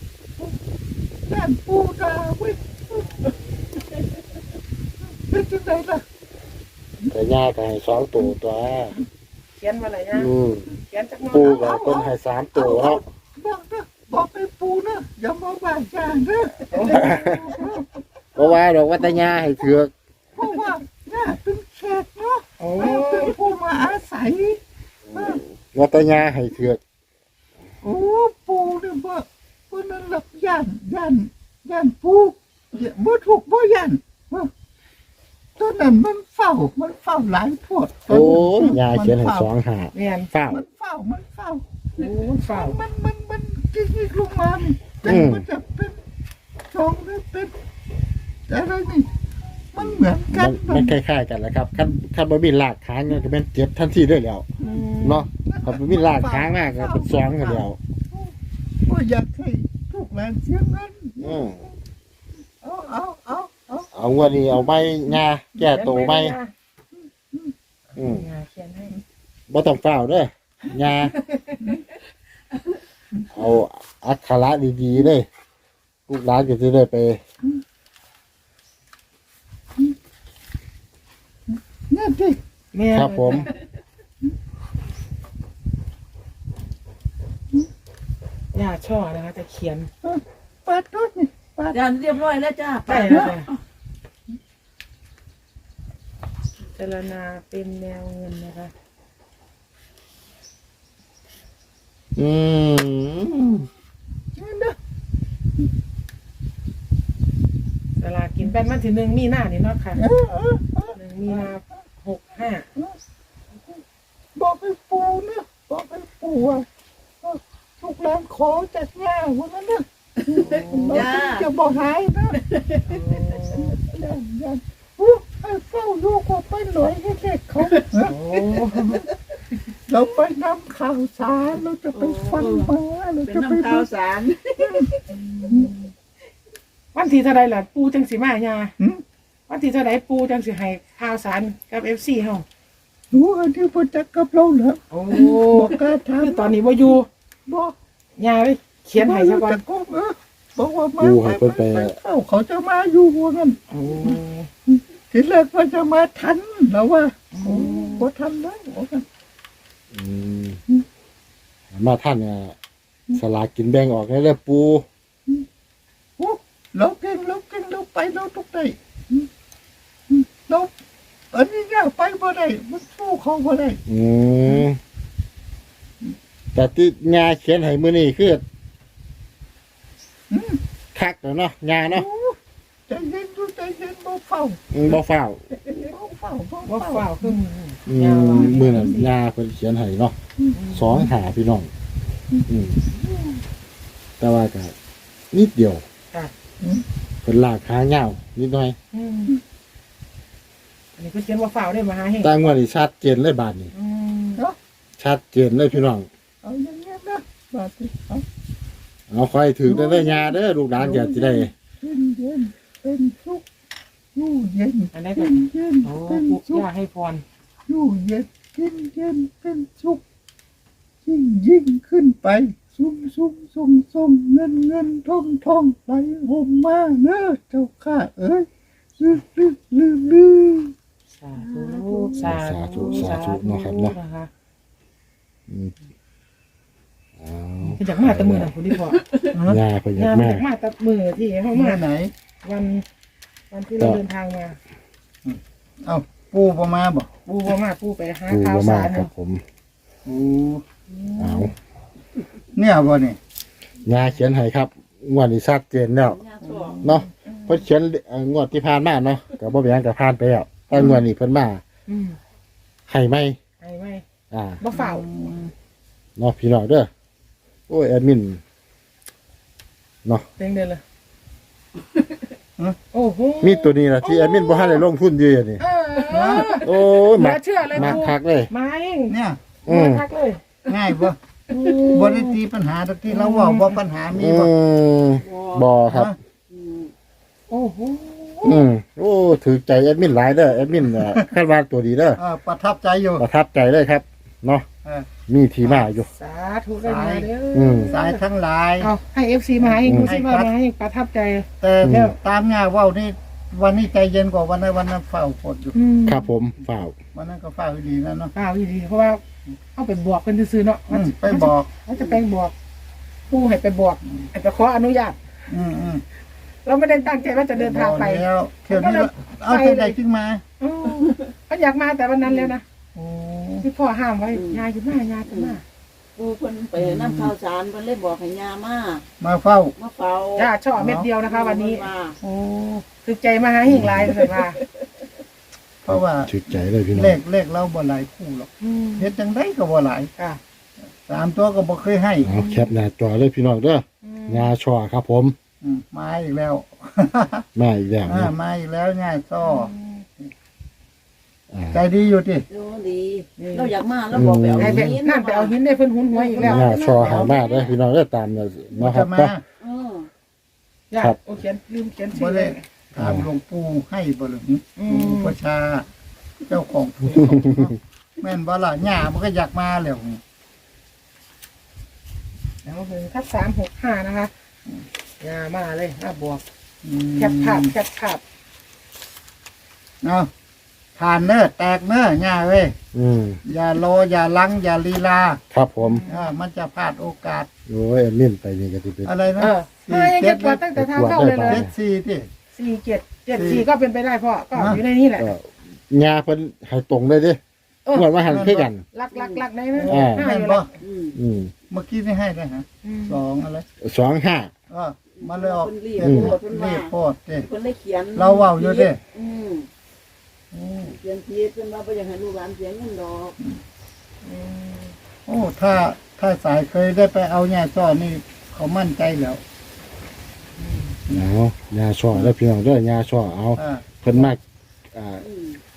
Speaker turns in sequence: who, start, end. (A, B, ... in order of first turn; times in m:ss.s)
0:01.3-0:03.0 A
0:05.3-0:06.0 A
0:07.1-0:09.0 B
0:09.6-0:10.3 C
0:10.1-0:10.7 B
0:10.8-0:11.7 C
0:11.3-0:13.0 B
0:11.4-0:17.8 A
0:16.7-0:17.1 C
0:16.9-0:17.6 B
0:18.4-0:19.5 A
0:18.4-0:19.9 B
0:20.4-0:24.6 A
0:22.6-0:23.4 C
0:25.1-0:26.8 B
0:25.1-0:25.4 A
0:27.8-0:34.5 A
0:35.6-0:39.5 A
0:38.1-0:40.6 B
0:39.9-0:40.3 C
0:40.5-0:46.0 A
0:42.0-0:42.8 C
0:45.0-0:45.4 B
0:46.7-0:47.5 A
0:48.5-0:49.1 A
0:49.7-0:51.0 A
0:50.2-0:54.5 B
0:54.6-0:55.2 C
0:55.0-0:57.8 B
0:55.4-0:58.3 A
0:58.8-1:01.7 A
1:01.2-1:01.6 B
1:02.6-1:03.9 A
1:03.9-1:06.4 B
1:04.5-1:05.2 A
1:05.7-1:06.5 C
1:08.0-1:08.3 B
1:08.0-1:09.0 C
1:09.5-1:11.1 B
1:11.2-1:11.6 C
1:13.3-1:15.2 B
1:16.1-1:17.2 B
1:21.5-1:22.4 A
1:22.7-1:23.5 C
1:22.9-1:23.5 B
1:28.5-1:29.9 C
1:30.0-1:31.8 A
1:31.7-1:33.6 D
1:32.9-1:33.5 C
1:36.7-1:38.7 C
1:42.2-1:43.7 B
1:44.3-1:44.8 A
1:48.0-1:50.0 C
1:50.0-1:51.4 A
1:50.9-1:52.6 C
1:54.4-1:56.6 A
1:57.2-2:02.4 A
2:00.4-2:01.5 D
2:00.4-2:01.1 C
2:02.4-2:03.0 D
2:02.9-2:03.8 C
2:03.5-2:08.1 A
2:08.0-2:09.0 C
2:09.9-2:13.9 A
2:11.9-2:15.0 D
2:14.6-2:14.9 A
2:15.1-2:15.9 C
2:16.9-2:18.7 C
2:19.5-2:22.4 C
2:23.1-2:26.6 A
2:24.9-2:27.1 C
2:27.5-2:27.7 A
2:28.2-2:29.6 C
2:29.0-2:34.2 A
2:31.0-2:32.0 B
2:33.7-2:34.5 C
2:34.7-2:39.0 A
2:37.3-2:38.0 C
2:39.9-2:40.6 B
2:41.7-2:42.6 B
2:43.1-2:44.8 B
2:46.2-2:49.3 A
2:50.1-2:50.7 A
2:51.3-2:53.8 A
2:53.9-2:54.8 B
2:56.5-2:58.4 B
3:00.3-3:00.6 A
3:00.9-3:02.0 B
3:01.9-3:02.4 A
3:02.9-3:04.9 A
3:04.7-3:05.4 B
3:05.7-3:07.4 A
3:06.6-3:09.1 C
3:07.9-3:10.1 B
3:10.5-3:11.0 C
3:10.7-3:11.7 B
3:12.5-3:12.8 B
3:14.2-3:14.7 B
3:15.3-3:15.8 B
3:17.2-3:18.8 B
3:18.9-3:19.3 C
3:21.0-3:22.3 C
3:22.2-3:23.7 B
3:23.7-3:24.4 C
3:25.0-3:26.1 B
3:26.4-3:28.2 A
3:29.1-3:31.5 B
3:29.6-3:33.4 A
3:34.1-3:36.6 A
3:34.9-3:37.2 C
3:37.7-3:40.0 A
3:41.0-3:48.5 A
3:49.0-3:50.7 A
3:51.1-3:54.3 C
3:51.4-3:52.2 D
3:52.2-3:54.0 B
3:55.5-3:55.7 B
3:57.2-3:58.5 B
3:57.7-3:59.0 C
3:58.9-3:59.3 D
3:59.3-3:59.6 A
3:59.4-4:00.4 B
4:00.0-4:01.8 C
4:01.5-4:02.1 A
4:02.4-4:02.8 C
4:03.5-4:04.6 C
4:05.2-4:07.1 A
4:07.2-4:09.1 C
4:08.3-4:09.4 B
4:10.0-4:10.6 A
4:10.9-4:11.5 C
4:11.2-4:11.5 B
4:12.5-4:13.2 A
4:13.8-4:16.2 B
4:16.0-4:16.8 D
4:16.4-4:17.0 A
4:16.8-4:21.6 B
4:16.8-4:17.6 C
4:20.7-4:21.0 A
4:21.9-4:22.2 C
4:22.9-4:23.4 B
4:23.6-4:24.0 C
4:24.3-4:24.6 B
4:24.6-4:25.0 C
4:24.7-4:25.5 A
4:26.2-4:26.9 B
4:27.7-4:28.4 B
4:30.4-4:30.8 C
4:32.9-4:34.8 C
4:33.4-4:35.6 B
4:35.6-4:40.4 C
4:36.1-4:36.5 A
4:36.6-4:38.5 B
4:37.7-4:38.0 A
4:39.1-4:39.4 A
4:39.6-4:40.0 B
4:40.7-4:41.2 A
4:41.5-4:42.4 C
4:41.9-4:44.5 A
4:43.1-4:43.8 C
4:44.1-4:46.1 B
4:45.2-4:45.8 D
4:45.9-4:46.2 A
4:46.5-4:46.9 D
4:47.5-4:48.6 C
4:48.4-4:52.2 B
4:52.2-4:53.2 A
4:53.2-4:54.6 B
4:55.3-4:56.1 B
4:55.6-4:55.9 A
4:56.0-4:58.2 C
4:56.8-4:57.3 A
4:57.5-4:58.0 B
4:57.9-4:58.9 A
4:58.8-5:02.1 C
4:59.6-5:00.5 A
4:59.8-5:00.1 B
5:01.6-5:05.8 A
5:01.8-5:02.1 B
5:05.7-5:06.2 C
5:06.1-5:07.0 B
5:07.1-5:08.3 A
5:08.3-5:09.2 C
5:09.8-5:12.5 C
5:10.9-5:11.7 A
5:13.3-5:15.2 C
5:15.5-5:16.0 A
5:16.6-5:20.0 C
5:17.6-5:20.4 A
5:20.6-5:22.6 C
5:22.2-5:22.5 D
5:23.0-5:23.6 A
5:23.6-5:25.6 C
5:24.3-5:24.6 D
5:25.2-5:25.6 D
5:26.2-5:29.0 D
5:26.8-5:27.3 A
5:29.2-5:29.7 A
5:29.8-5:30.5 D
5:30.4-5:34.6 C
5:30.8-5:31.1 A
5:31.2-5:32.2 D
5:33.6-5:34.2 B
5:34.2-5:34.9 D
5:35.8-5:36.4 A
5:35.9-5:37.2 B
5:36.9-5:40.1 A
5:38.6-5:39.1 C
5:41.0-5:42.3 A
5:42.2-5:45.3 B
5:42.3-5:42.7 C
5:44.0-5:44.5 C
5:45.6-5:47.4 A
5:47.5-5:48.3 B
5:48.0-5:50.3 A
5:49.4-5:50.0 C
5:51.5-5:51.8 B
5:51.7-5:52.4 A
5:52.5-5:55.5 D
5:53.4-5:53.7 C
5:54.1-5:54.9 B
5:54.6-5:57.3 C
5:56.1-5:56.5 D
5:56.4-5:59.3 B
5:56.4-5:57.3 A
5:57.1-5:57.6 D
5:58.7-5:59.4 A
5:59.6-6:00.1 D
6:00.9-6:02.6 C
6:02.1-6:05.8 A
6:03.0-6:03.3 B
6:04.8-6:05.4 C
6:06.4-6:10.2 A
6:07.3-6:07.6 B
6:12.6-6:14.3 C
6:15.2-6:16.4 C
6:16.8-6:17.7 A
6:17.2-6:18.2 C
6:20.0-6:20.3 A
6:21.0-6:22.7 A
6:22.9-6:23.4 B
6:23.4-6:25.4 A
6:25.5-6:26.0 B
6:25.8-6:26.3 C
6:26.0-6:27.5 A
6:27.7-6:29.1 B
6:29.0-6:32.3 A
6:29.4-6:31.6 C
6:30.8-6:31.7 B
6:32.5-6:35.3 C
6:33.3-6:33.6 A
6:34.5-6:34.8 A
6:35.2-6:37.4 B
6:37.9-6:38.8 B
6:38.3-6:38.7 A
6:38.9-6:40.7 C
6:39.1-6:39.4 D
6:39.7-6:40.7 A
6:39.9-6:40.3 B
6:40.8-6:41.2 D
6:41.2-6:41.5 B
6:41.7-6:43.6 A
6:42.8-6:43.2 C
6:43.8-6:44.5 B
6:44.7-6:47.5 A
6:45.1-6:49.7 D
6:46.0-6:46.4 B
6:48.1-6:49.0 A
6:50.8-6:53.4 D
6:54.2-6:54.9 C
6:55.3-6:59.4 A
7:00.6-7:01.0 C
7:01.1-7:04.4 B
7:03.6-7:04.3 A
7:04.9-7:05.2 B
7:05.2-7:05.6 D